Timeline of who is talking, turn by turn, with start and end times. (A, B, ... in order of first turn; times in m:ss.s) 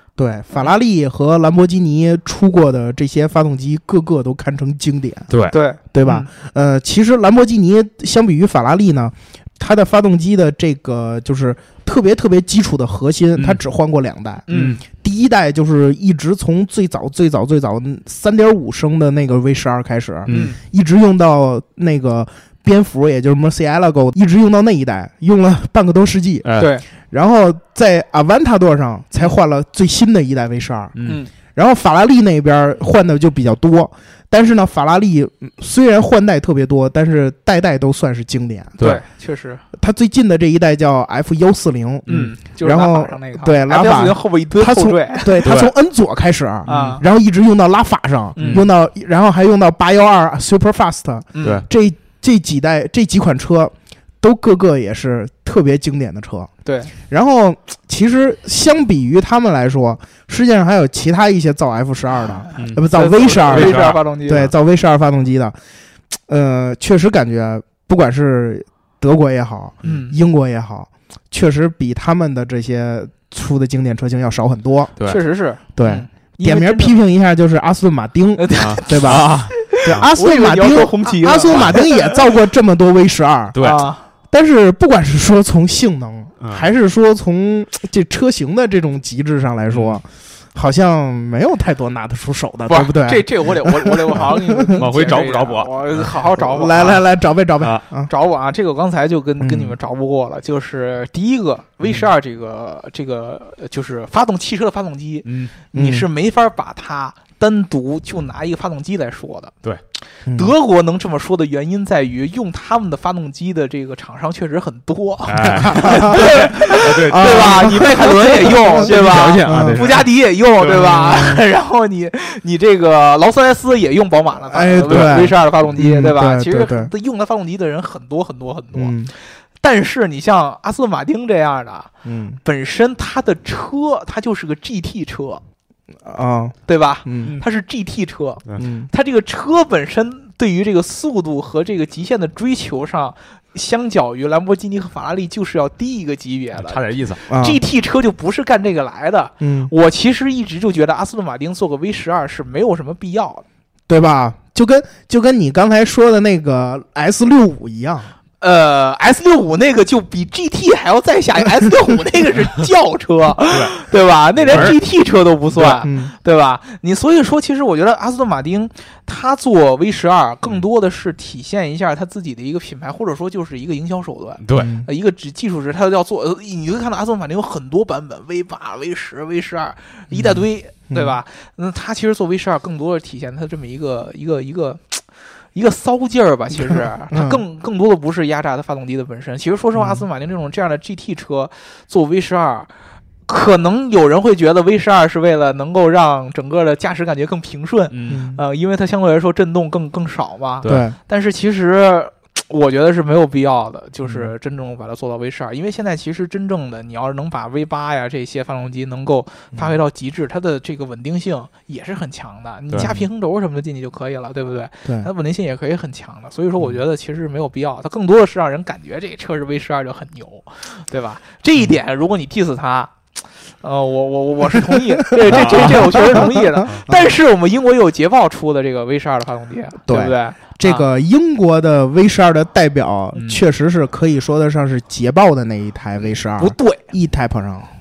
0:00.2-0:05.3 A
0:05.3-0:05.6 B
0:05.5-0:06.3 C
0:05.9-0:26.5 A
0:13.4-0:13.6 B
0:14.5-0:14.8 C
0:14.5-0:14.8 B
0:20.3-0:20.5 B
0:20.3-0:20.6 C
0:26.4-0:26.7 B
0:26.6-0:26.9 C
0:27.0-0:31.0 A
0:31.0-0:31.3 C
0:31.5-0:38.8 A
0:38.8-0:39.6 C
0:39.7-0:56.5 A
0:42.1-0:42.3 B
0:42.1-0:45.5 C
0:45.4-0:45.7 B
0:46.7-0:47.0 C
0:46.7-0:47.0 B
0:48.4-0:48.6 C
0:48.4-0:48.7 B
0:51.3-0:51.6 C
0:56.6-0:56.9 C
0:57.0-1:05.6 A
1:02.6-1:02.9 B
1:02.9-1:04.5 C
1:03.4-1:04.4 B
1:06.3-1:14.9 A
1:09.8-1:10.2 C
1:15.0-1:17.0 C
1:15.8-1:23.6 A
1:18.4-1:22.2 C
1:18.6-1:20.1 B
1:23.6-1:23.8 B
1:23.6-1:24.0 C
1:24.3-1:34.9 A
1:26.4-1:26.7 B
1:29.7-1:30.0 B
1:32.7-1:37.0 C
1:34.8-1:36.1 B
1:36.4-1:38.1 A
1:38.1-1:49.5 C
1:39.4-1:39.8 A
1:45.2-1:45.5 B
1:45.7-1:46.1 A
1:50.3-1:50.5 A
1:50.3-2:11.9 C
1:55.3-2:01.1 B
1:55.6-1:59.8 A
2:01.0-2:01.4 A
2:04.5-2:06.9 A
2:04.9-2:05.2 B
2:08.8-2:09.1 A
2:12.0-2:12.4 A
2:12.4-2:15.4 C
2:16.0-2:17.4 A
2:16.7-2:33.4 C
2:18.6-2:18.9 A
2:26.6-2:27.2 B
2:27.3-2:27.6 A
2:29.4-2:29.7 A
2:33.9-2:38.1 A
2:38.4-3:05.0 C
2:43.5-2:43.8 B
2:44.4-2:44.8 B
2:44.5-2:44.8 A
2:45.6-2:46.1 A
2:54.4-2:54.7 B
2:54.6-2:54.9 A
3:00.1-3:01.2 A
3:05.5-3:12.7 C
3:06.6-3:07.4 A
3:09.8-3:10.1 A
3:13.3-3:50.9 C
3:17.9-3:18.2 B
3:18.1-3:18.4 A
3:20.6-3:21.0 A
3:24.0-3:24.3 A
3:32.8-3:33.1 A
3:34.8-3:35.1 A
3:45.2-3:47.1 A
3:45.3-3:46.1 B
3:49.9-3:57.7 A
3:56.4-3:56.9 C